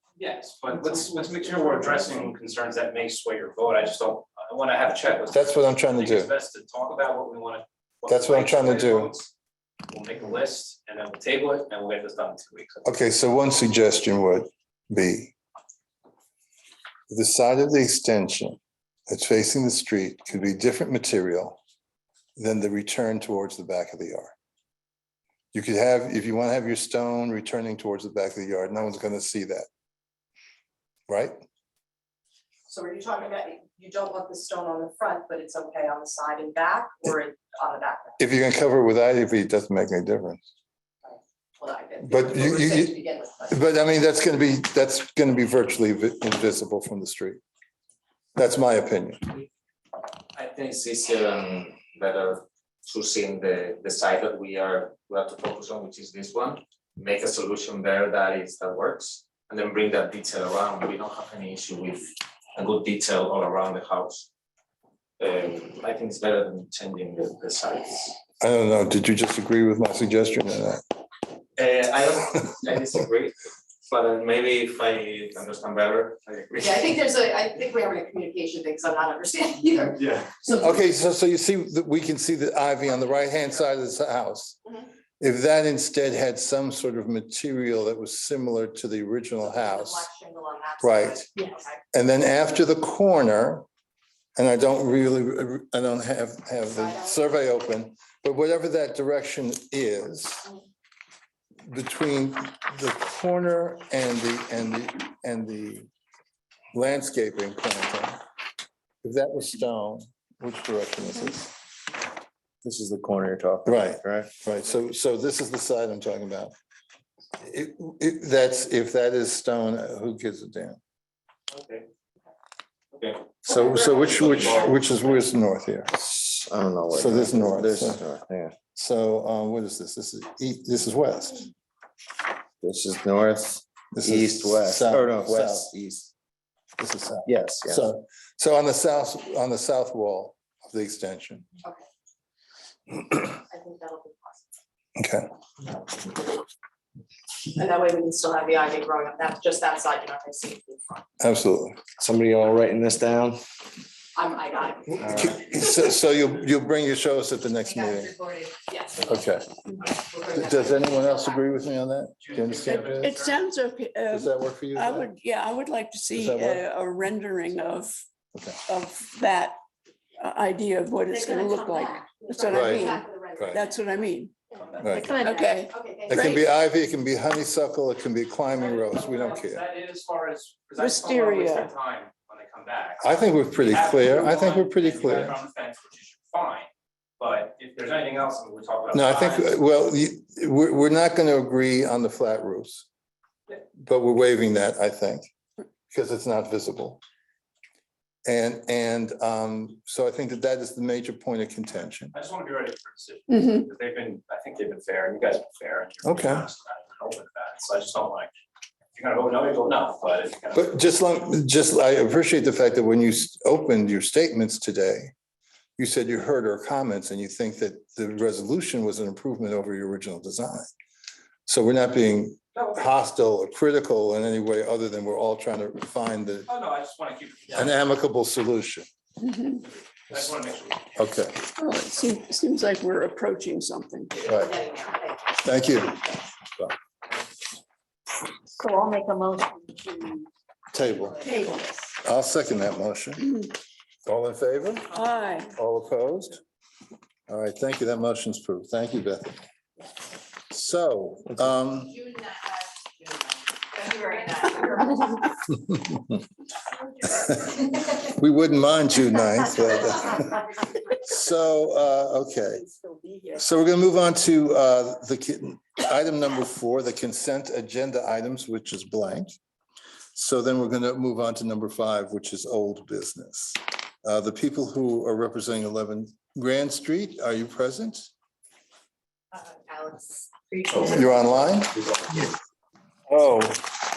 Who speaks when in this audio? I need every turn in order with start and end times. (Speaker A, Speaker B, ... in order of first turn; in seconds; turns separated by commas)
Speaker A: 0.2-9.3, Speaker B: 5.3-6.3, Speaker B: 8.1-9.1, Speaker A: 9.9-12.9, Speaker B: 12.8-15.3, Speaker B: 17.1-21.6, Speaker B: 22.4-24.3, Speaker B: 25.5-29.7, Speaker B: 31.1-31.4, Speaker C: 32.7-38.2, Speaker B: 38.2-40.4, Speaker C: 41.0-43.6, Speaker B: 42.0-43.0, Speaker B: 43.5-47.4, Speaker B: 48.4-49.3, Speaker D: 50.4-64.3, Speaker D: 65.2-68.2, Speaker B: 68.4-70.8, Speaker D: 71.6-77.0, Speaker C: 76.6-80.5, Speaker B: 80.5-84.6, Speaker B: 85.2-90.1, Speaker C: 89.5-91.8, Speaker B: 90.8-91.3, Speaker B: 91.9-93.7, Speaker B: 94.4-100.5, Speaker C: 96.7-97.2, Speaker B: 101.7-105.9, Speaker B: 106.7-108.2, Speaker B: 109.0-111.5, Speaker E: 112.6-114.3, Speaker B: 113.7-116.5, Speaker B: 117.4-120.8, Speaker B: 123.4-126.0, Speaker E: 126.0-128.6, Speaker B: 126.9-128.0, Speaker B: 128.8-131.5, Speaker E: 132.6-136.1, Speaker B: 133.9-135.7, Speaker B: 136.8-141.5, Speaker E: 137.3-137.8, Speaker C: 143.3-144.4, Speaker B: 145.0-145.3, Speaker C: 147.5-151.1, Speaker B: 151.2-151.8, Speaker E: 152.0-153.4, Speaker C: 154.2-155.2, Speaker B: 155.0-158.2, Speaker E: 155.0-155.3, Speaker C: 158.7-159.1, Speaker B: 159.1-159.5, Speaker C: 160.1-160.6, Speaker B: 160.3-163.1, Speaker A: 162.2-163.4, Speaker F: 162.7-168.0, Speaker B: 164.1-165.1, Speaker B: 166.1-166.7, Speaker B: 168.3-168.6, Speaker F: 168.7-169.6, Speaker F: 170.2-174.4, Speaker G: 171.3-171.9, Speaker C: 171.8-174.1, Speaker B: 172.5-172.8, Speaker A: 174.6-175.0, Speaker B: 174.8-175.1, Speaker G: 174.9-175.6, Speaker F: 175.0-176.4, Speaker C: 175.7-176.2, Speaker B: 176.1-179.7, Speaker A: 178.6-186.7, Speaker F: 180.8-181.7, Speaker B: 183.0-185.4, Speaker A: 187.2-189.6, Speaker B: 188.9-192.9, Speaker B: 193.8-195.3, Speaker B: 195.9-197.0, Speaker B: 198.3-202.1, Speaker A: 202.1-208.3, Speaker F: 203.3-203.7, Speaker B: 206.1-206.5, Speaker A: 208.9-210.7, Speaker B: 210.5-215.1, Speaker B: 215.8-220.7, Speaker B: 221.5-226.5, Speaker A: 222.6-222.9, Speaker A: 226.5-227.8, Speaker B: 227.5-228.9, Speaker F: 229.2-229.6, Speaker A: 229.9-231.0, Speaker B: 231.0-231.5, Speaker F: 231.6-234.2, Speaker C: 234.2-235.3, Speaker B: 234.3-234.6, Speaker B: 235.4-236.7, Speaker G: 238.6-240.3, Speaker B: 240.7-241.3, Speaker B: 242.0-243.4, Speaker B: 244.1-244.9, Speaker F: 244.9-245.5, Speaker B: 245.5-246.4, Speaker B: 247.3-249.4, Speaker B: 250.5-252.0, Speaker G: 254.0-254.3, Speaker B: 255.5-256.0, Speaker B: 257.3-262.7, Speaker G: 262.8-263.3, Speaker B: 263.4-269.4, Speaker B: 270.1-278.1, Speaker C: 279.6-280.9, Speaker B: 280.9-282.3, Speaker B: 283.1-283.6